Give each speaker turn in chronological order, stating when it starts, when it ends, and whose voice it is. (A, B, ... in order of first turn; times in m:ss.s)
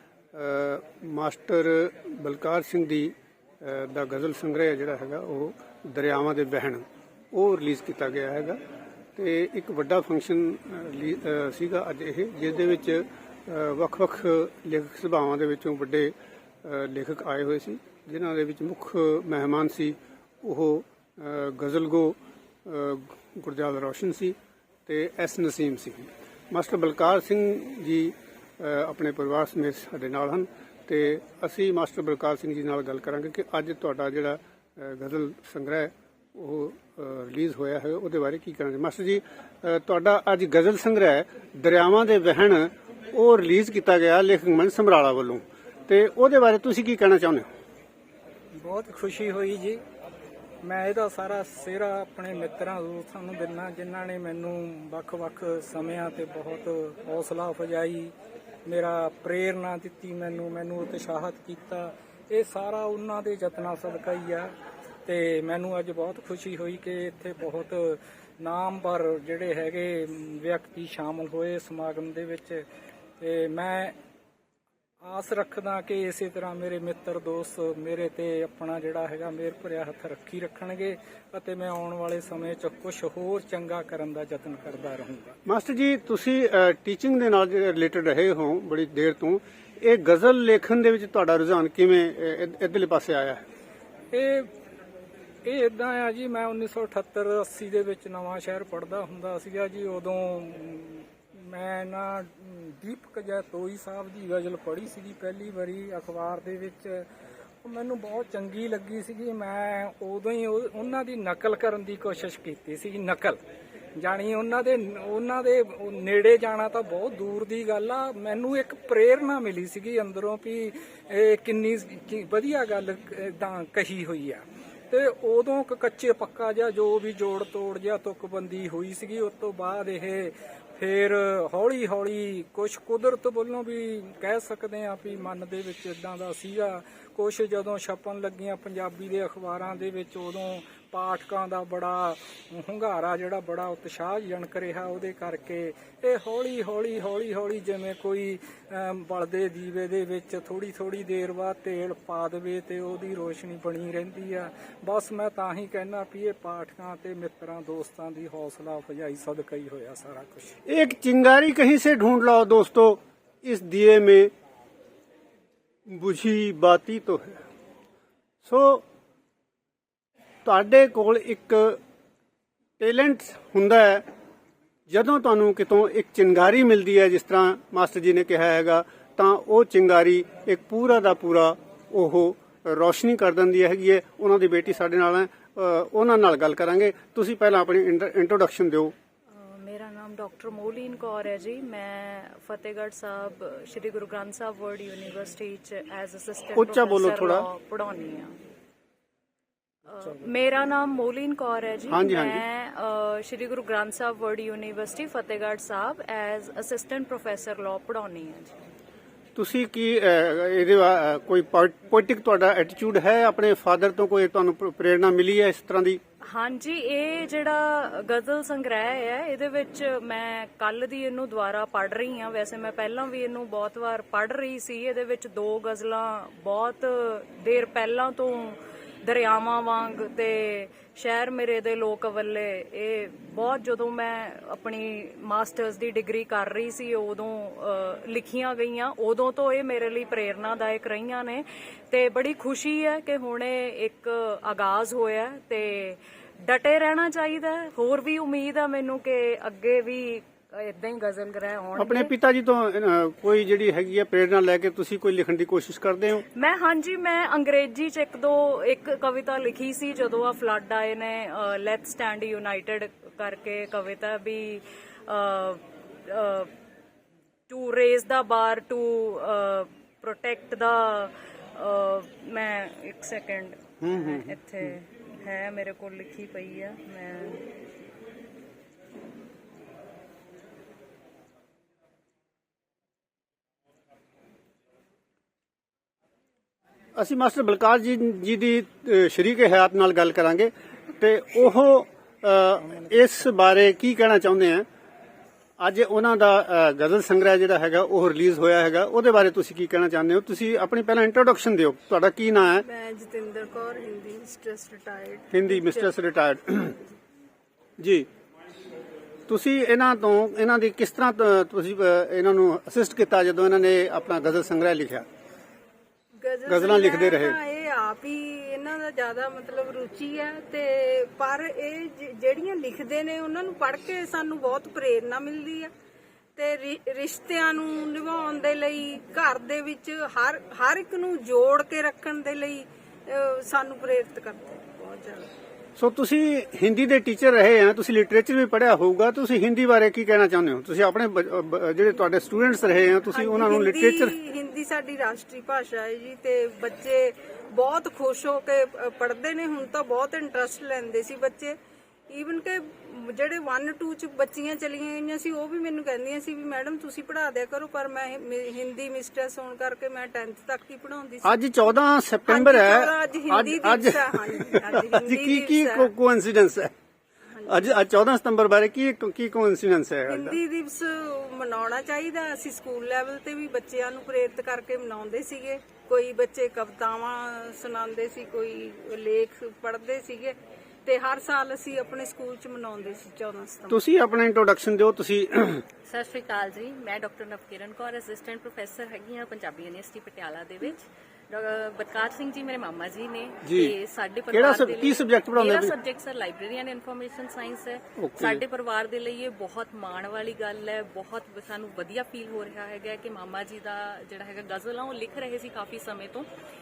0:00.3-0:08.6 A
0:09.2-0:16.1 A
0:16.6-0:24.4 A
0:24.9-0:47.5 A
0:48.5-0:49.8 B
0:50.6-0:58.1 B
0:58.6-1:04.5 B
1:05.0-1:12.6 B
1:13.2-1:14.0 B
1:15.0-1:25.3 B
1:25.4-1:33.4 A
1:34.1-1:34.5 B
1:35.4-1:47.1 B
1:47.6-1:53.4 B
1:54.0-2:40.6 B
2:40.7-2:44.3 A
2:45.9-2:47.4 A
2:48.4-2:48.8 A
2:50.4-2:51.8 A
2:52.8-2:54.0 A
2:54.9-3:08.9 A
3:09.3-3:18.3 C
3:16.6-3:17.5 A
3:19.9-3:28.5 C
3:21.9-3:22.4 A
3:29.4-3:36.0 A
3:36.2-4:12.1 C
4:11.8-4:16.2 A
4:16.3-4:26.5 C
4:27.5-4:37.4 C
4:33.8-4:34.3 A
4:47.0-4:54.7 A
4:55.6-5:02.6 A
5:02.5-5:05.9 D
5:05.3-5:06.8 A
5:07.8-5:08.1 A
5:09.3-5:15.0 A
5:16.2-5:25.7 D
5:16.4-5:17.4 A
5:26.4-5:35.3 D
5:35.8-5:44.2 A
5:43.1-5:51.5 D
5:52.1-6:01.3 D
6:01.2-6:06.7 A
6:02.3-6:05.9 D
6:07.4-6:07.6 D
6:07.5-6:10.4 A
6:10.1-6:23.8 D
6:23.7-6:25.6 A
6:25.9-6:46.2 E
6:33.4-6:33.7 A
6:34.3-6:35.7 A
6:38.0-6:38.4 A